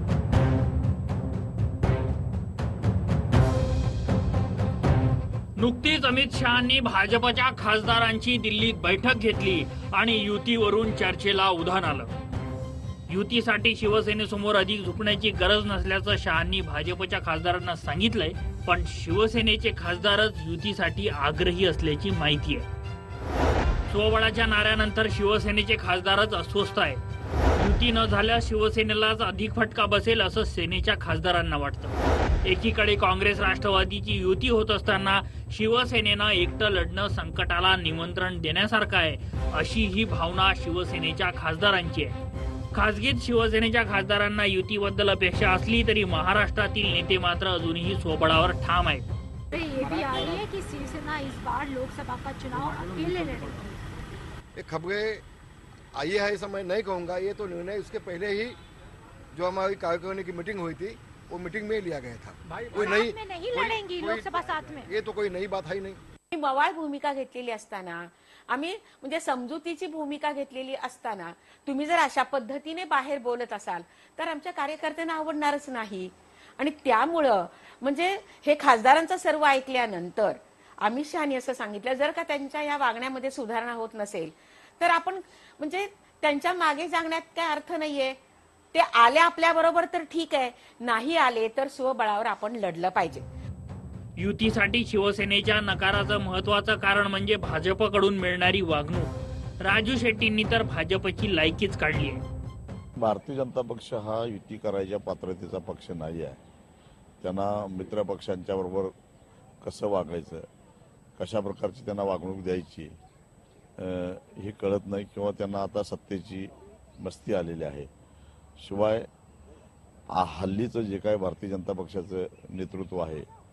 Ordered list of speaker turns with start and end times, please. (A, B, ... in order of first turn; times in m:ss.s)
0:05.6-0:12.1 A
0:13.1-0:22.6 A
0:23.9-0:27.0 A
0:27.6-0:42.2 A
0:42.7-0:49.0 A
0:49.5-0:53.6 B
0:49.8-0:50.4 C
0:52.7-0:53.4 C
0:54.6-0:55.2 C
0:55.9-0:58.6 C
0:59.3-1:06.0 C
1:02.6-1:04.8 B
1:06.3-1:28.2 D
1:28.7-1:33.2 D
1:34.2-1:39.1 A
1:39.6-1:42.2 A
1:43.0-1:46.4 E
1:47.2-1:48.9 E
1:49.6-1:50.4 E
1:51.2-1:52.9 E
1:53.8-1:57.9 E
1:58.6-1:59.1 E
2:00.1-2:03.3 E